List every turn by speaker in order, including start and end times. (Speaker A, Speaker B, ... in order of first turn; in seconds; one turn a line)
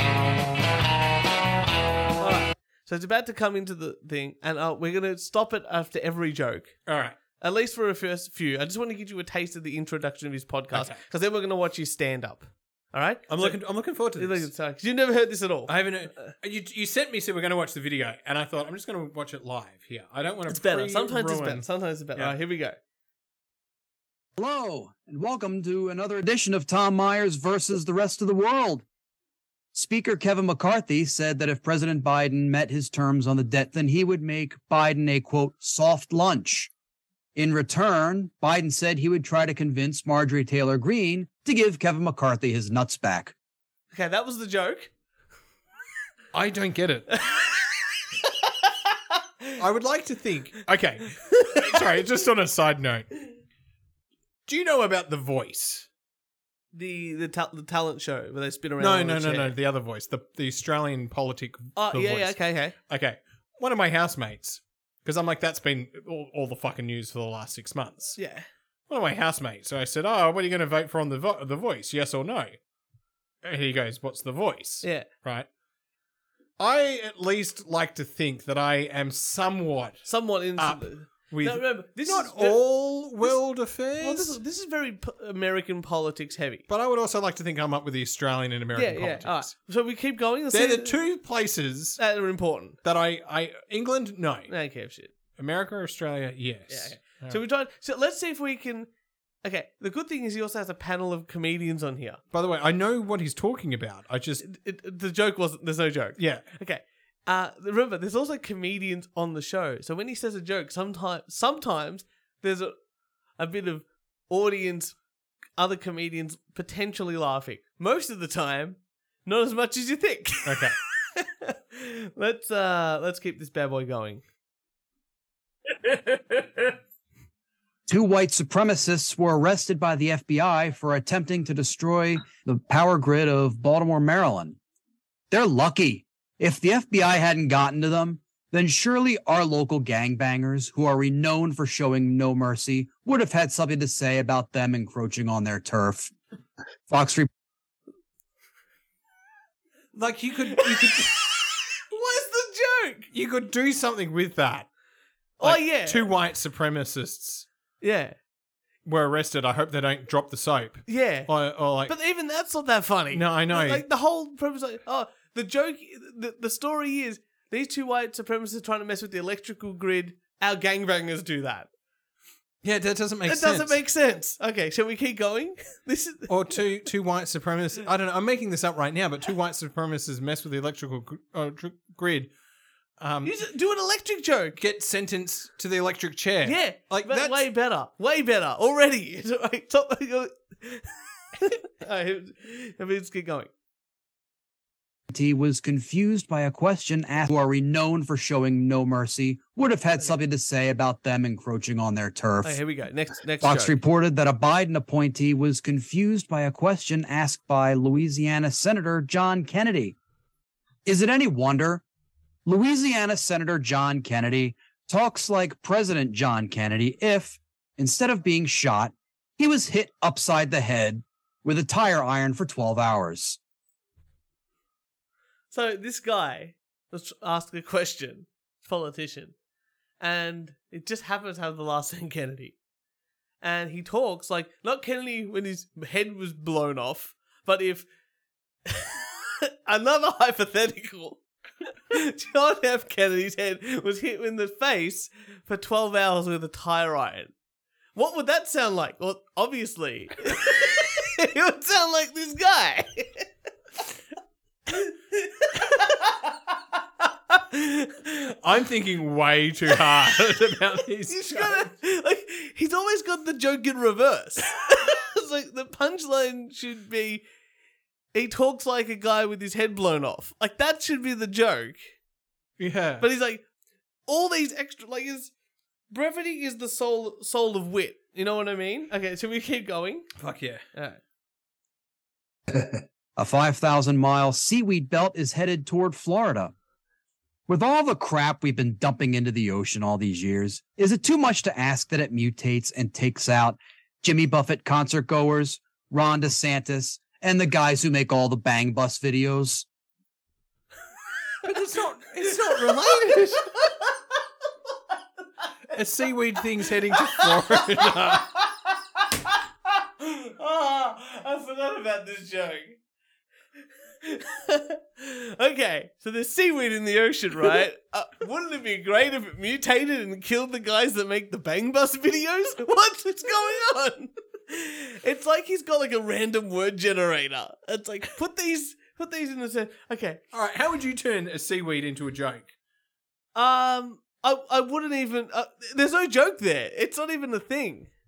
Speaker A: 2.2-6.8
Speaker B: 6.9-7.2
Speaker A: 7.4-16.3
Speaker B: 10.7-11.0
Speaker B: 13.3-14.5
Speaker B: 15.7-22.4
Speaker A: 20.5-22.8
Speaker C: 24.4-28.8
Speaker C: 29.7-36.7
Speaker C: 37.4-43.3
Speaker A: 43.9-44.9
Speaker B: 46.3-47.1
Speaker A: 47.1-47.5
Speaker B: 49.6-53.1
Speaker A: 51.3-51.8
Speaker B: 54.5-55.9
Speaker A: 56.7-59.5
Speaker B: 58.8-68.2
Speaker A: 61.8-62.8
Speaker A: 68.2-68.5
Speaker B: 68.9-72.5
Speaker B: 73.4-75.5
Speaker A: 74.8-75.1
Speaker B: 76.6-84.4
Speaker A: 80.1-82.7
Speaker A: 83.2-86.7
Speaker B: 86.7-89.5
Speaker A: 88.8-91.0
Speaker B: 90.5-92.0
Speaker A: 92.0-92.8
Speaker B: 92.8-94.5
Speaker A: 94.5-95.1
Speaker B: 95.4-97.4
Speaker A: 96.7-98.9
Speaker A: 99.4-102.2
Speaker B: 102.3-104.4
Speaker A: 104.4-112.8
Speaker B: 106.2-106.5
Speaker A: 113.4-115.0
Speaker A: 115.6-124.2
Speaker B: 120.5-120.8
Speaker C: 127.9-134.6
Speaker C: 135.3-146.1
Speaker C: 146.9-147.3
Speaker B: 149.9-151.3
Speaker A: 150.5-151.3
Speaker A: 151.9-153.1
Speaker B: 153.1-154.7
Speaker A: 155.4-156.1
Speaker B: 155.4-157.5
Speaker A: 157.8-158.2
Speaker B: 158.9-161.9
Speaker A: 160.9-161.3
Speaker A: 161.9-171.7
Speaker B: 163.1-163.8
Speaker B: 172.6-173.8
Speaker A: 173.3-176.5
Speaker B: 176.3-182.3
Speaker B: 183.0-183.4
Speaker A: 183.2-184.6
Speaker B: 184.6-187.5
Speaker A: 186.4-193.5
Speaker C: 195.1-202.6
Speaker A: 202.4-203.8
Speaker C: 203.4-209.9
Speaker C: 210.9-211.8
Speaker C: 212.5-223.4
Speaker A: 225.5-229.3
Speaker A: 230.0-232.6
Speaker A: 233.4-237.9
Speaker A: 238.7-239.0
Speaker A: 239.7-241.2
Speaker A: 241.9-247.3
Speaker A: 247.9-253.3
Speaker A: 254.7-256.4
Speaker A: 257.0-258.2
Speaker B: 258.4-261.7
Speaker A: 259.7-260.2
Speaker A: 261.1-267.2
Speaker A: 268.1-272.0
Speaker B: 272.6-273.1
Speaker A: 273.0-273.4
Speaker A: 274.1-275.3
Speaker A: 275.9-280.1
Speaker B: 280.2-280.6
Speaker A: 280.7-281.0
Speaker C: 282.5-286.5
Speaker C: 287.5-299.6
Speaker B: 301.4-303.5
Speaker B: 305.7-308.3
Speaker A: 306.9-308.4
Speaker A: 310.0-312.8
Speaker A: 314.0-330.2
Speaker B: 330.3-332.5
Speaker A: 333.4-337.9